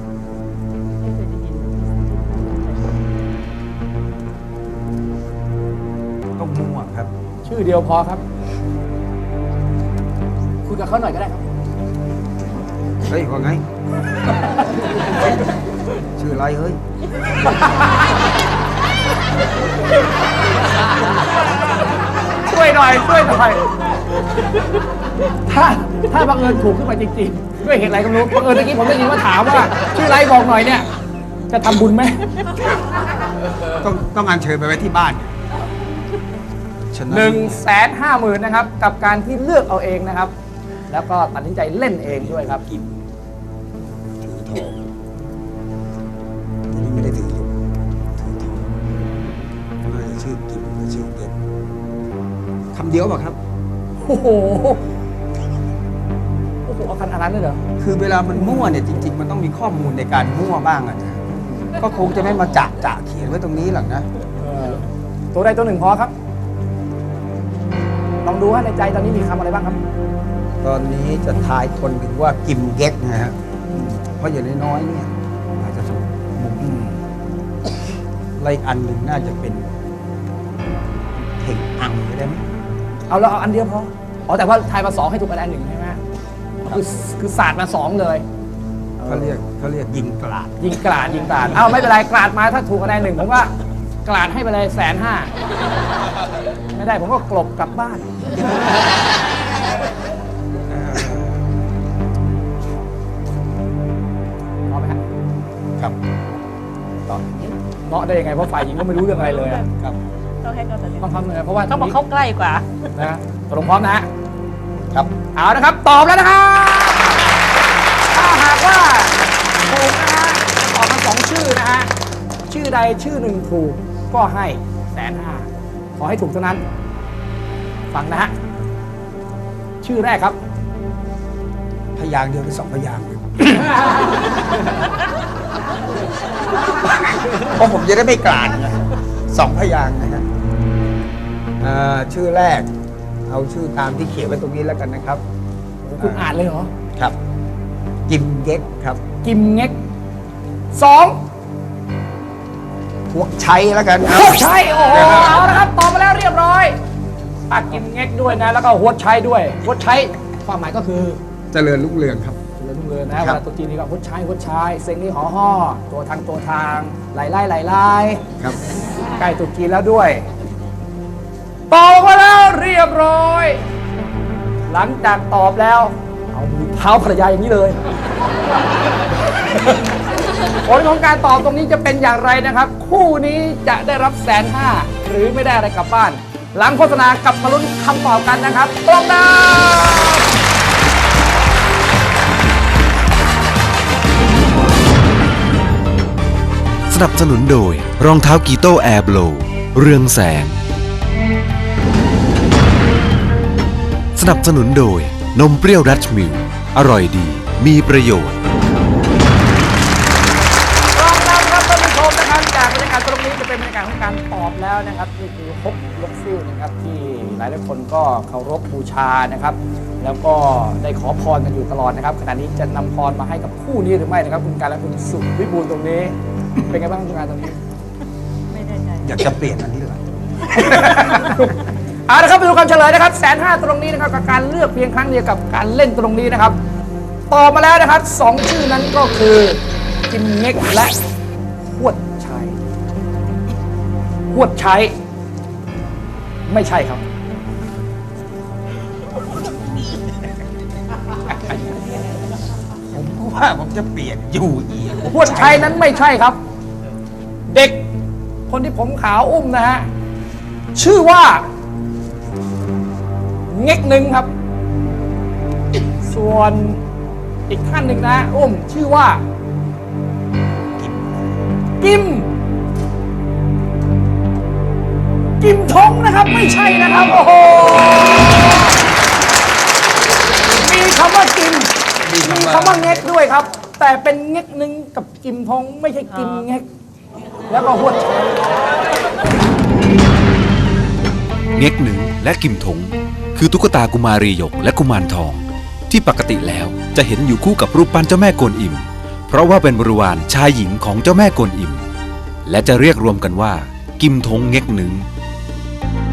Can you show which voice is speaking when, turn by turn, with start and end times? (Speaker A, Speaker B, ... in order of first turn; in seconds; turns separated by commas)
Speaker A: 1.0-3.0, Speaker B: 6.4-7.1, Speaker C: 7.4-8.2, Speaker C: 10.7-11.5, Speaker B: 13.0-13.6, Speaker B: 16.1-16.8, Speaker C: 17.5-18.1, Speaker C: 22.4-23.6, Speaker C: 25.3-30.9, Speaker C: 31.5-32.5, Speaker B: 33.7-35.4, Speaker B: 36.9-37.6, Speaker C: 37.1-40.3, Speaker C: 40.9-42.6, Speaker B: 42.0-43.0, Speaker B: 44.2-44.8, Speaker B: 46.7-47.6, Speaker B: 48.1-49.0, Speaker B: 49.8-51.3, Speaker B: 52.7-53.4, Speaker C: 54.0-54.9, Speaker C: 56.6-57.6, Speaker B: 57.8-61.2, Speaker C: 58.3-58.9, Speaker C: 61.3-61.8, Speaker B: 61.7-64.1, Speaker C: 64.4-66.1, Speaker C: 68.2-69.8, Speaker B: 70.6-73.4, Speaker C: 73.7-74.0, Speaker B: 74.2-76.8, Speaker C: 76.6-76.9, Speaker B: 78.4-79.7, Speaker B: 81.1-82.4, Speaker C: 83.1-86.0, Speaker C: 86.6-88.2, Speaker C: 89.0-89.3, Speaker B: 89.0-91.5, Speaker C: 90.6-95.3, Speaker C: 96.7-98.7, Speaker B: 100.7-101.3, Speaker C: 104.7-105.0, Speaker C: 107.8-109.7, Speaker A: 109.3-109.6, Speaker A: 110.4-111.1, Speaker C: 111.0-112.0, Speaker A: 111.7-112.9, Speaker C: 113.0-114.1, Speaker C: 115.3-117.2, Speaker C: 118.1-121.9, Speaker C: 122.5-126.6, Speaker C: 127.9-128.3, Speaker C: 129.8-130.4, Speaker B: 131.9-133.8, Speaker B: 136.7-140.2, Speaker B: 141.6-142.7, Speaker B: 143.3-145.2, Speaker C: 145.8-146.7, Speaker B: 146.0-146.3, Speaker B: 148.1-149.0, Speaker C: 149.2-149.8, Speaker C: 150.7-151.2, Speaker B: 153.1-155.6, Speaker C: 154.0-156.8, Speaker C: 157.5-161.2, Speaker B: 161.5-162.4, Speaker C: 162.6-168.2, Speaker B: 163.2-163.4, Speaker C: 169.0-170.2, Speaker C: 171.7-173.6, Speaker C: 174.7-177.8, Speaker C: 179.4-179.8, Speaker C: 180.6-190.3, Speaker D: 196.9-200.6, Speaker D: 204.1-208.4, Speaker C: 210.9-227.6, Speaker B: 229.0-231.1, Speaker C: 230.5-231.6, Speaker C: 232.1-236.6, Speaker C: 237.3-241.0, Speaker C: 241.7-242.6, Speaker C: 244.3-244.9, Speaker C: 246.5-247.0, Speaker C: 251.4-251.7, Speaker B: 252.9-255.8, Speaker C: 255.1-256.4, Speaker C: 257.5-257.8, Speaker C: 258.5-259.9, Speaker C: 260.7-261.5, Speaker C: 263.5-264.3, Speaker C: 266.0-266.8, Speaker C: 267.5-269.2, Speaker B: 270.8-271.4, Speaker C: 271.8-272.3, Speaker C: 275.4-278.7, Speaker C: 280.6-286.6, Speaker B: 282.0-283.1, Speaker A: 286.2-286.4, Speaker C: 287.5-288.5, Speaker D: 291.5-301.9, Speaker D: 302.4-305.1